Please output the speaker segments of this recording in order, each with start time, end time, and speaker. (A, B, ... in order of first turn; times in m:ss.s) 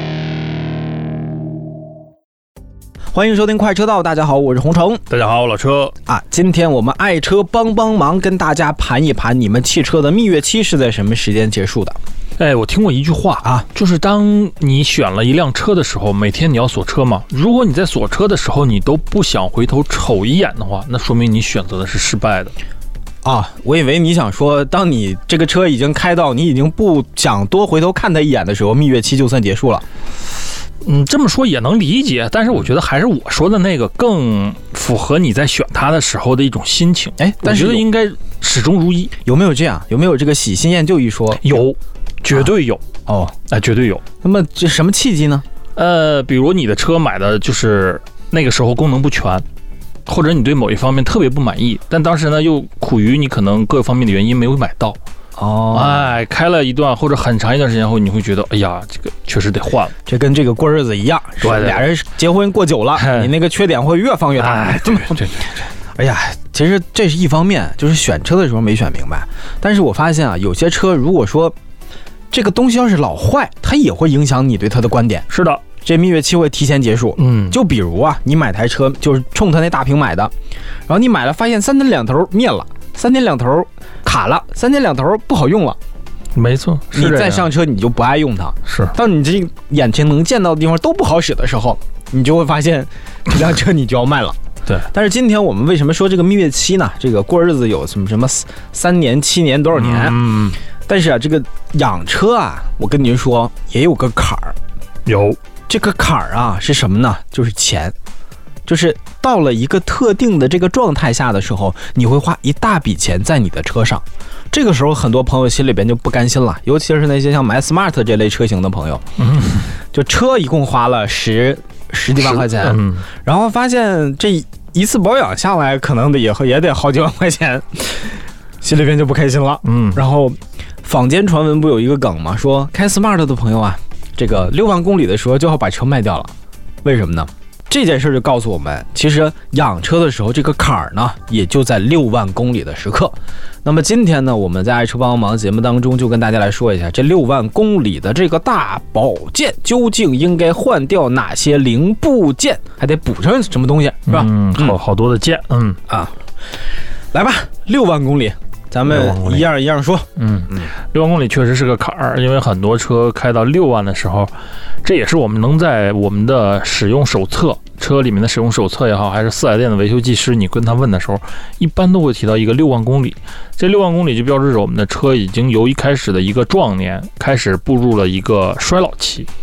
0:03.1-0:05.0 A
0:05.1-0:05.9 B
0:06.0-0:12.0 A
0:12.4-0:22.5 B
0:23.2-0:29.8 A
0:30.8-0:39.1 B
0:37.2-0:37.9 A
0:39.2-0:41.6 A
0:41.4-0:42.8 B
0:43.0-0:43.3 A
0:43.5-0:44.0 B
0:44.2-0:45.4 A
0:45.8-0:49.4 B
0:50.1-0:55.0 B
0:55.4-0:56.1 A
0:55.7-1:00.0 B
1:00.1-1:05.3 A
1:01.4-1:01.9 B
1:03.0-1:03.3 B
1:04.4-1:05.6 B
1:06.0-1:11.6 A
1:12.3-1:15.3 A
1:15.3-1:15.6 B
1:15.8-1:20.3 A
1:17.2-1:17.6 B
1:20.9-1:25.8 A
1:26.3-1:27.5 B
1:26.9-1:40.2 A
1:28.7-1:29.0 B
1:39.8-1:40.6 B
1:40.9-1:44.6 A
1:45.1-1:45.4 B
1:45.7-1:47.9 A
1:48.7-1:59.0 A
1:59.2-1:59.7 B
1:59.9-2:16.3 A
2:02.2-2:03.0 B
2:09.6-2:10.0 B
2:16.8-2:34.8 A
2:34.1-2:35.8 B
2:35.9-2:36.1 A
2:37.1-2:40.7 A
2:38.8-2:39.5 B
2:40.2-2:44.3 B
2:44.8-2:59.3 B